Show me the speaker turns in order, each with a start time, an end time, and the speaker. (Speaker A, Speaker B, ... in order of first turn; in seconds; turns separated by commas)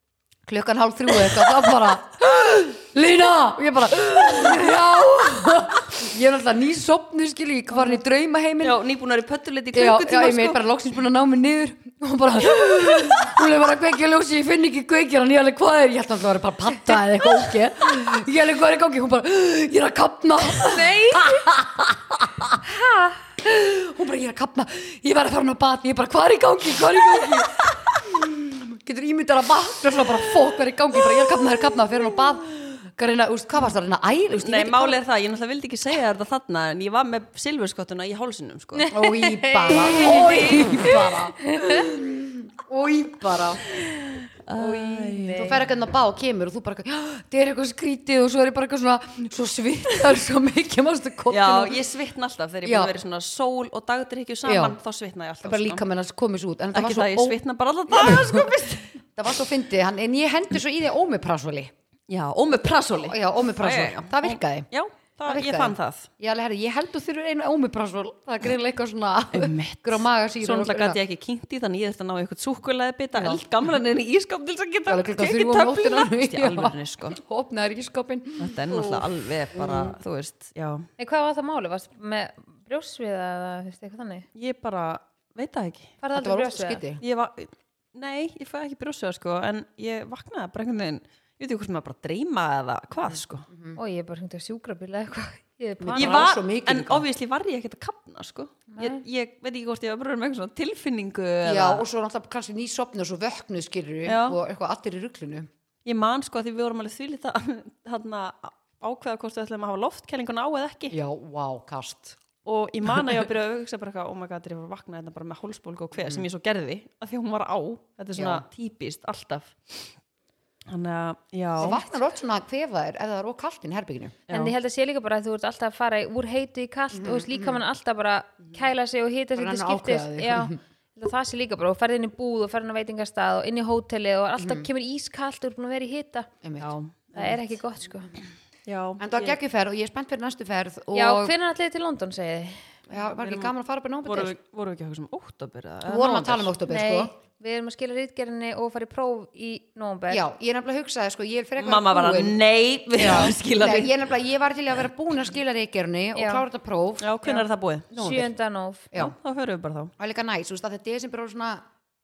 Speaker A: 0.5-8.8, Speaker B: 8.6-10.6, Speaker A: 9.7-22.6, Speaker C: 20.6-21.5, Speaker C: 22.6-23.3, Speaker A: 23.4-35.0, Speaker B: 34.3-38.9, Speaker C: 38.8-40.7, Speaker A: 38.9-43.6, Speaker B: 39.8-40.9, Speaker C: 41.4-41.9, Speaker B: 43.7-45.6, Speaker C: 44.5-45.6, Speaker A: 45.3-51.8, Speaker B: 51.3-55.8, Speaker A: 52.6-52.9, Speaker A: 54.4-54.8, Speaker A: 55.4-58.5, Speaker B: 56.7-59.0, Speaker A: 59.1-61.7, Speaker B: 62.1-66.1, Speaker A: 63.0-64.7, Speaker A: 65.3-71.0, Speaker B: 69.3-77.2, Speaker A: 74.9-79.0, Speaker B: 78.4-80.9, Speaker A: 79.5-80.0, Speaker C: 81.0-84.3, Speaker B: 84.3-85.9, Speaker C: 86.0-86.8, Speaker A: 86.1-87.0, Speaker B: 87.0-93.5, Speaker A: 93.1-93.8, Speaker C: 93.8-96.3, Speaker A: 95.8-97.0, Speaker B: 96.0-101.8, Speaker C: 98.7-99.0, Speaker A: 101.4-105.5, Speaker B: 104.0-104.4, Speaker B: 105.8-111.0, Speaker A: 110.9-112.2, Speaker B: 112.4-119.9, Speaker A: 116.0-116.2, Speaker A: 118.1-118.5, Speaker B: 120.7-121.8, Speaker A: 121.6-124.2, Speaker B: 124.3-124.5, Speaker C: 124.3-136.3, Speaker A: 126.9-127.6, Speaker A: 129.3-130.6, Speaker A: 134.4-134.7, Speaker A: 136.4-136.7, Speaker B: 136.6-137.4, Speaker C: 137.1-138.1, Speaker B: 138.7-139.4, Speaker A: 139.0-141.3, Speaker C: 140.9-142.8, Speaker A: 142.9-144.3, Speaker B: 142.9-143.5, Speaker B: 144.0-146.5, Speaker A: 145.8-147.1, Speaker C: 146.7-150.2, Speaker A: 150.1-152.4, Speaker B: 151.6-153.9, Speaker A: 152.9-157.2, Speaker C: 156.1-156.4, Speaker B: 157.0-157.9, Speaker C: 157.2-158.9, Speaker A: 157.9-158.3, Speaker B: 158.9-159.9, Speaker A: 160.0-161.6